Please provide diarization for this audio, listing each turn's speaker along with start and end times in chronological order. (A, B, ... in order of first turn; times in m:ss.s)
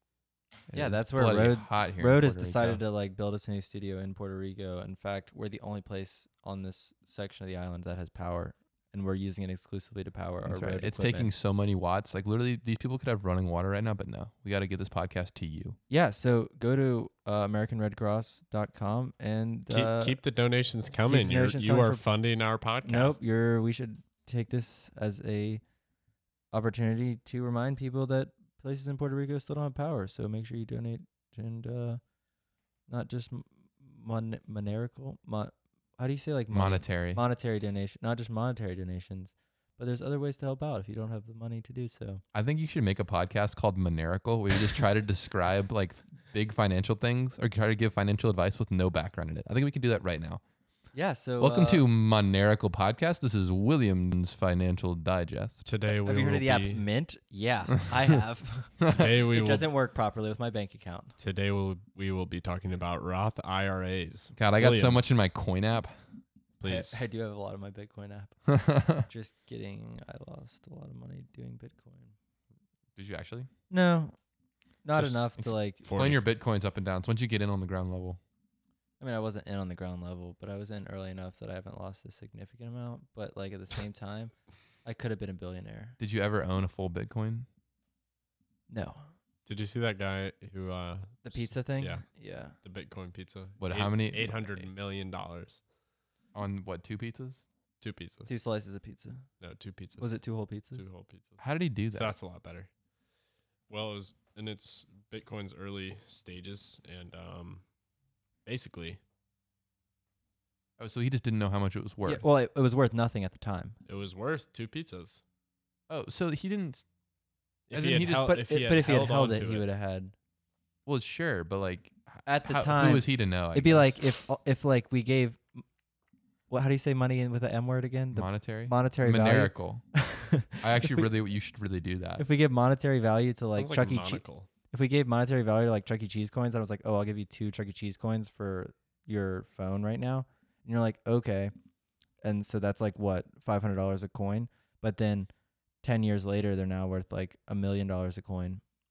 0:00.7-0:02.8 A
0:00.7-0:11.3 B
0:10.4-0:15.8 A
0:15.9-0:20.2 B
0:19.7-0:23.2 C
0:21.1-0:22.0 B
0:22.8-0:25.6 B
0:26.5-0:32.0 B
0:32.9-0:42.2 B
0:36.5-0:37.2 A
0:42.3-0:50.4 A
0:50.9-0:51.9 B
0:51.4-0:55.6 A
0:55.6-0:56.8 C
0:56.0-1:01.2 B
0:58.8-0:59.1 A
0:58.9-0:59.7 C
1:01.2-1:05.0 C
1:04.4-1:06.0 A
1:06.6-1:07.0 C
1:06.6-1:12.1 B
1:08.6-1:09.0 A
1:13.0-1:13.5 A
1:13.7-1:14.2 B
1:14.8-1:15.8 B
1:15.0-1:16.2 C
1:15.8-1:18.2 A
1:19.0-1:26.0 B
1:26.0-1:27.5 A
1:28.7-1:29.1 B
1:29.5-1:32.1 C
1:31.2-1:32.6 B
1:32.6-1:35.6 C
1:33.6-1:34.7 A
1:36.3-1:37.4 A
1:37.8-1:38.4 C
1:38.3-1:39.2 B
1:39.4-1:42.7 C
1:40.0-1:40.8 B
1:41.4-1:42.2 A
1:43.7-1:47.6 C
1:48.4-1:49.0 C
1:50.8-1:52.3 A
1:52.0-1:53.8 B
1:53.9-1:55.2 C
1:55.9-1:56.8 A
1:57.7-1:59.7 C
1:57.7-1:58.3 A
1:58.2-2:00.1 B
2:00.9-2:04.0 A
2:02.3-2:05.6 B
2:06.5-2:11.1 B
2:08.1-2:09.8 A
2:10.6-2:12.2 A
2:12.2-2:21.5 B
2:13.5-2:14.5 C
2:22.2-2:25.3 B
2:25.8-2:28.6 B